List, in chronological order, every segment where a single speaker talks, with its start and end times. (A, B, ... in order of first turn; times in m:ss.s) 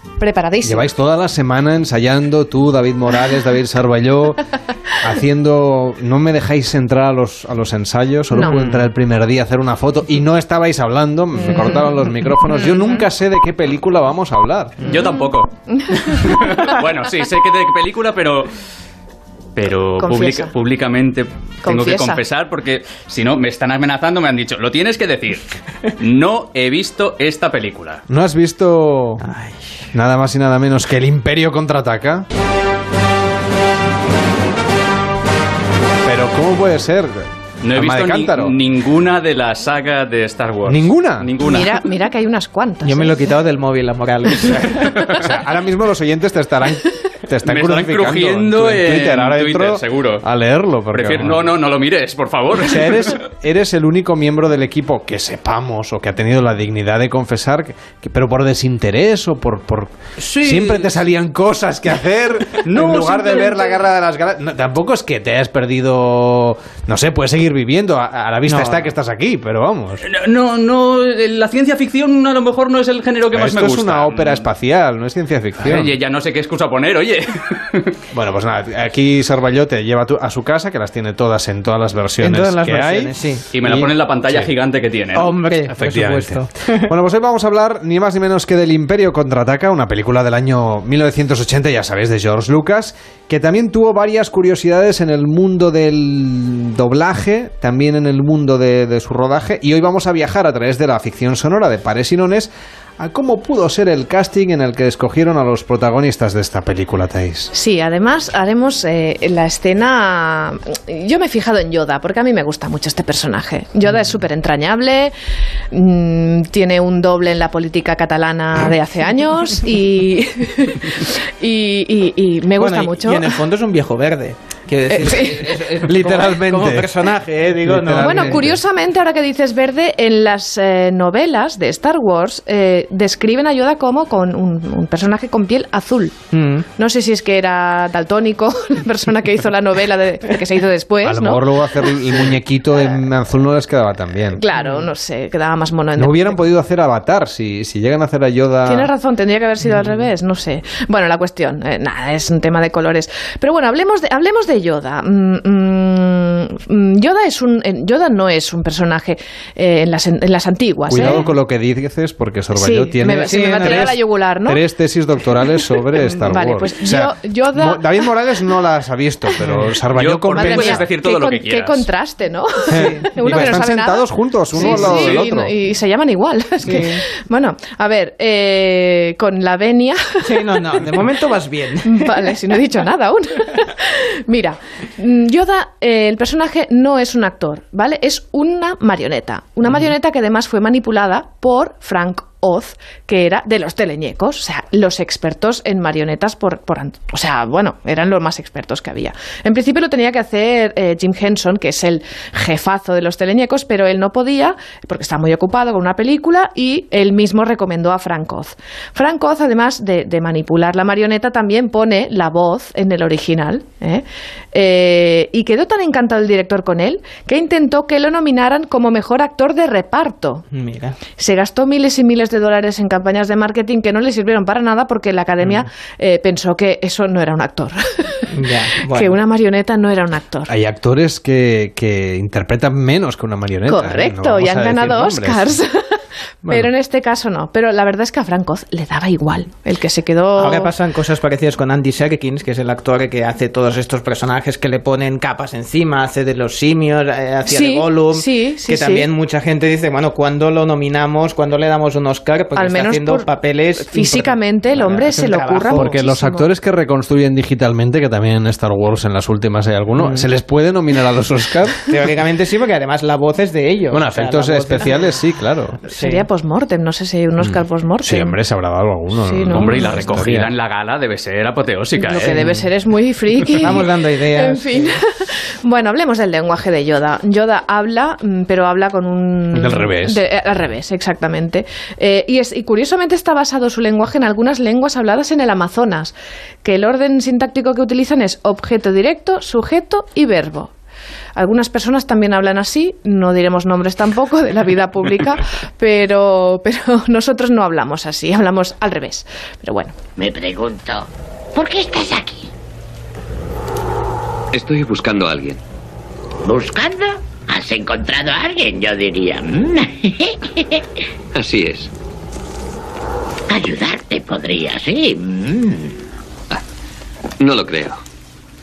0:00.2-0:00.9 A
0:00.6-0:04.4 B
0:05.0-0:14.9 B
0:08.3-0:08.6 A
0:11.4-0:13.0 A
0:14.8-0:18.5 C
0:14.9-0:16.7 A
0:19.5-0:28.0 C
0:20.0-0:20.5 A
0:21.6-0:22.2 A
0:28.1-0:29.2 B
0:29.2-0:29.7 D
0:29.9-0:32.2 B
0:36.0-0:38.6 B
0:37.6-0:41.8 C
0:40.6-0:41.3 B
0:41.4-0:43.1 A
0:42.8-0:45.0 D
0:44.8-0:51.5 B
0:45.0-0:45.3 C
0:47.4-0:50.2 C
0:50.9-0:53.2 C
0:52.6-1:10.0 B
1:00.2-1:01.0 C
1:02.6-1:03.8 C
1:08.4-1:08.9 D
1:10.0-1:14.4 C
1:13.3-1:15.9 B
1:15.6-1:17.9 C
1:18.1-1:24.5 B
1:22.2-1:23.4 D
1:23.5-1:25.3 C
1:25.1-1:26.9 D
1:25.6-1:47.5 B
1:47.5-1:55.1 A
1:55.7-2:03.4 A
2:02.6-2:08.4 D
2:04.9-2:05.5 A
2:05.8-2:06.9 B
2:07.6-2:08.6 B
2:08.0-2:16.2 A
2:16.3-2:16.6 D
2:16.8-2:22.3 A
2:21.0-2:24.4 B
2:24.3-2:26.4 A
2:24.6-2:24.8 D
2:26.0-2:28.9 B
2:28.6-2:41.2 A
2:40.9-2:50.8 B
2:40.9-2:41.3 D
2:42.5-2:44.6 A
2:43.2-2:43.8 D
2:45.6-2:48.1 A
2:49.9-2:51.9 C
2:50.4-3:00.6 A
2:52.7-2:55.5 B
2:52.7-2:53.0 D
2:54.9-2:55.2 C
2:56.6-2:57.0 D
3:00.2-3:02.1 D
3:01.8-3:40.4 A
3:40.5-3:41.0 D
3:41.2-3:48.3 A
3:48.3-3:49.2 D
3:48.9-3:50.5 A
3:50.5-3:55.6 B
3:53.6-4:00.7 A
4:00.4-4:15.9 D
4:07.4-4:09.1 A
4:12.5-4:16.5 A
4:15.7-4:21.8 B
4:20.0-4:20.3 D
4:21.9-4:25.2 D
4:23.9-4:25.8 B
4:25.9-4:28.4 A
4:25.9-4:26.3 D
4:27.4-4:30.5 B
4:29.2-4:30.2 A
4:29.5-4:32.4 C
4:32.0-4:50.7 A
4:32.3-4:32.6 D
4:33.5-4:35.0 D
4:39.5-4:40.2 B
4:51.4-5:00.0 A
5:00.2-5:02.5 E
5:04.5-5:05.6 F
5:06.4-5:10.8 E
5:11.3-5:11.9 F
5:13.5-5:16.0 E
5:17.4-5:18.0 F